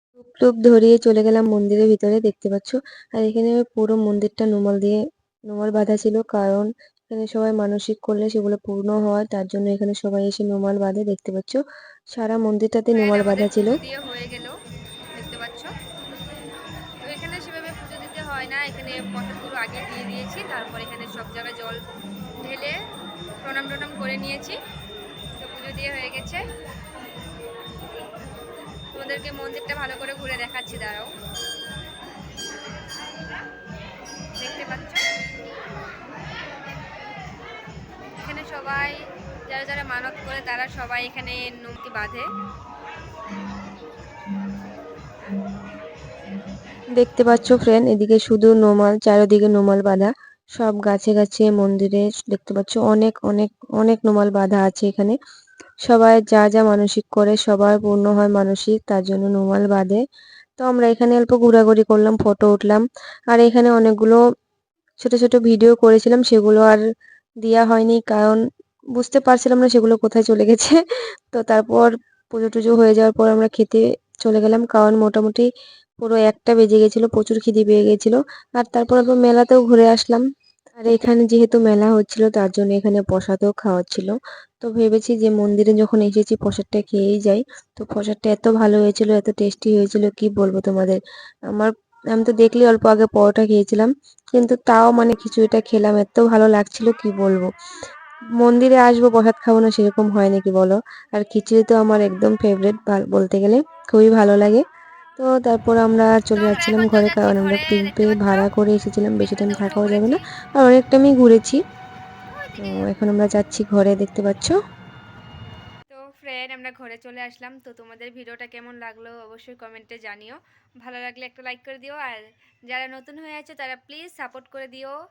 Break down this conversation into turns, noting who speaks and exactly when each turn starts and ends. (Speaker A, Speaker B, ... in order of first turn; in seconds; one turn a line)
Speaker A: 0.3-11.6
Speaker A: 12.1-13.8
Speaker B: 12.9-14.5
Speaker B: 15.2-15.7
Speaker B: 17.0-21.8
Speaker B: 22.4-22.8
Speaker B: 23.4-24.6
Speaker B: 25.4-26.4
Speaker B: 28.9-31.1
Speaker B: 34.4-35.0
Speaker B: 38.2-42.3
Speaker A: 47.0-55.2
Speaker A: 55.9-60.0
Speaker A: 60.6-64.2
Speaker A: 65.0-66.8
Speaker A: 67.4-68.4
Speaker A: 69.0-70.8
Speaker A: 71.3-75.5
Speaker A: 76.0-80.2
Speaker A: 80.8-91.0
Speaker A: 91.5-97.5
Speaker A: 98.4-104.6
Speaker A: 105.2-111.6
Speaker B: 106.4-108.5
Speaker B: 109.2-110.2
Speaker B: 112.3-112.9
Speaker A: 112.6-114.6
Speaker B: 115.9-125.0